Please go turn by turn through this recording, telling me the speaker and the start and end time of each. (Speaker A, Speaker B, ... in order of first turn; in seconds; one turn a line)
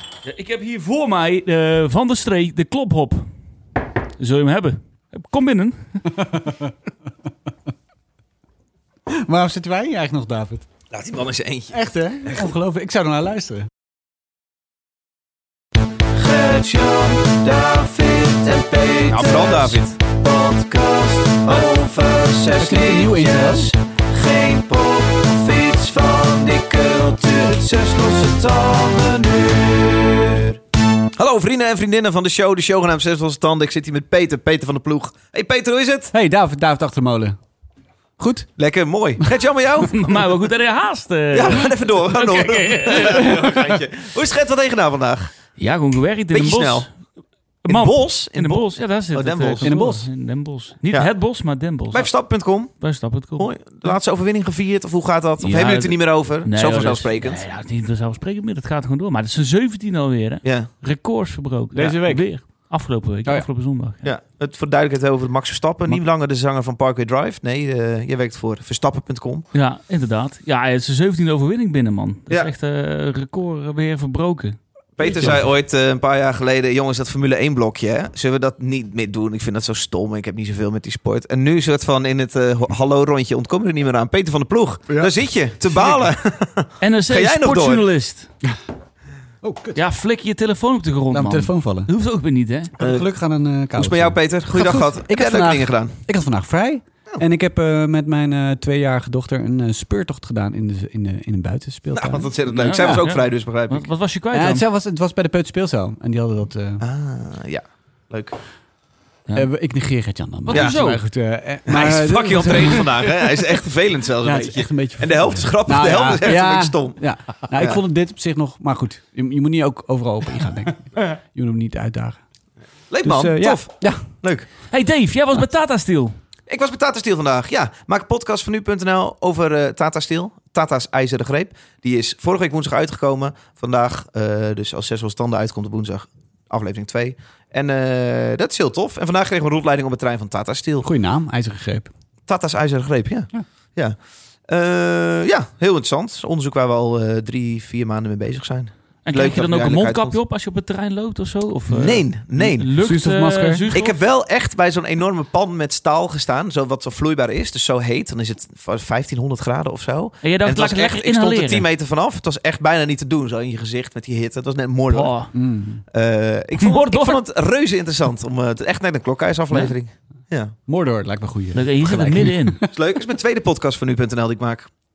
Speaker A: 0.2-3.3
Speaker A: 4.2-5.8
Speaker B: 6.1-6.7
Speaker B: 9.1-10.7
Speaker C: 10.9-11.7
Speaker B: 11.7-13.7
Speaker D: 16.2-29.7
Speaker C: 19.0-20.0
Speaker C: 21.4-21.8
Speaker B: 22.5-23.7
Speaker C: 22.8-23.4
Speaker C: 29.4-30.4
Speaker C: 31.2-36.1
Speaker B: 36.1-37.4
Speaker B: 38.2-38.5
Speaker C: 38.6-40.3
Speaker A: 39.9-43.6
Speaker C: 41.3-45.3
Speaker A: 45.6-46.9
Speaker C: 46.3-46.9
Speaker A: 47.6-52.1
Speaker C: 47.6-49.7
Speaker B: 49.6-50.0
Speaker C: 51.9-52.8
Speaker A: 52.8-53.9
Speaker C: 53.3-57.4
Speaker A: 55.4-64.0
Speaker C: 60.4-60.7
Speaker B: 61.7-62.5
Speaker C: 64.0-69.5
Speaker A: 69.5-74.6
Speaker C: 75.0-87.9
Speaker B: 75.0-75.4
Speaker B: 84.9-85.1
Speaker B: 85.7-86.0
Speaker A: 86.8-88.3
Speaker B: 89.4-89.8
Speaker A: 89.8-92.7
Speaker B: 91.1-91.9
Speaker B: 92.8-102.3
Speaker C: 92.8-93.0
Speaker C: 93.8-95.9
Speaker C: 101.9-103.9
Speaker A: 102.5-104.6
Speaker B: 104.3-106.8
Speaker C: 106.8-108.4
Speaker B: 109.3-112.9
Speaker A: 110.5-111.0
Speaker C: 111.7-117.0
Speaker B: 114.2-122.2
Speaker C: 117.5-117.8
Speaker C: 122.9-124.5
Speaker B: 123.0-124.0
Speaker A: 124.7-126.2
Speaker C: 126.5-140.9
Speaker B: 140.8-141.9
Speaker C: 142.3-143.9
Speaker C: 144.5-150.2
Speaker A: 149.0-154.0
Speaker C: 151.7-152.7
Speaker B: 152.8-153.7
Speaker C: 153.7-165.2
Speaker A: 160.2-161.7
Speaker A: 164.9-165.3
Speaker B: 165.3-165.8
Speaker C: 165.9-170.5
Speaker A: 166.6-167.2
Speaker B: 170.7-172.7
Speaker A: 171.5-172.6
Speaker C: 172.7-174.7